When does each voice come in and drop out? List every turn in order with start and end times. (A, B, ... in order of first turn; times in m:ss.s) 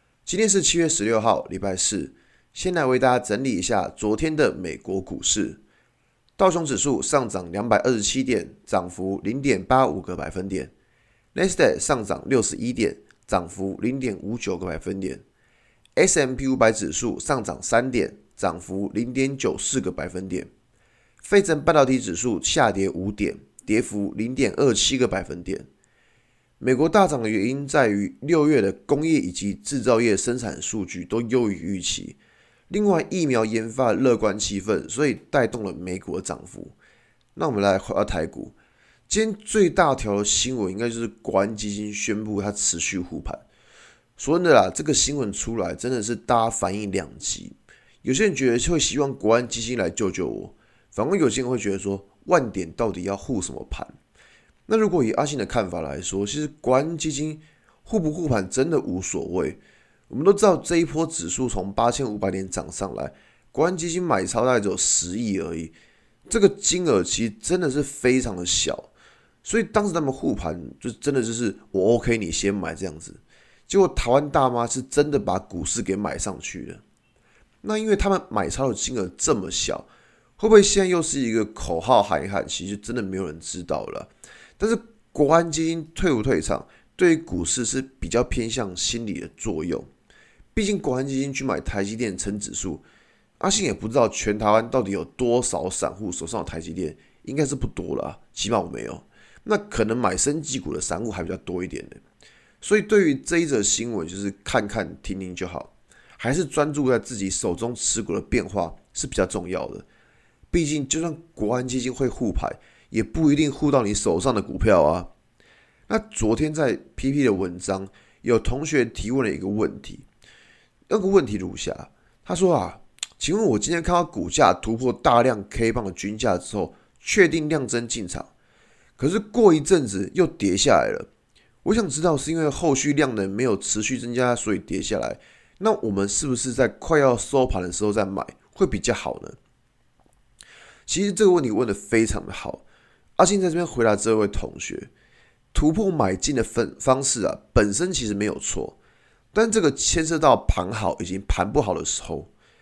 0:00.3-0:05.6 A
0:06.4-0:10.7 A
0:11.3-0:15.2 A
0:16.0-0:20.5 A
0:21.2-0:25.7 A
0:26.6-0:32.2 A
0:32.7-0:36.8 A
0:37.4-0:38.6 A
0:39.1-0:43.4 A
0:44.2-0:53.9 A
0:54.7-1:05.8 A
1:06.3-1:08.9 A
1:09.4-1:16.8 A
1:17.6-1:19.9 A
1:20.4-1:29.9 A
1:30.5-1:32.8 A
1:33.4-1:42.0 A
1:42.6-1:49.8 A
1:50.5-1:55.1 A
1:55.9-2:00.1 A
2:00.9-2:08.3 A
2:09.0-2:11.1 A
2:11.6-2:19.4 A
2:20.9-2:22.6 A
2:23.2-2:24.9 A
2:25.5-2:28.8 A
2:29.3-2:32.3 A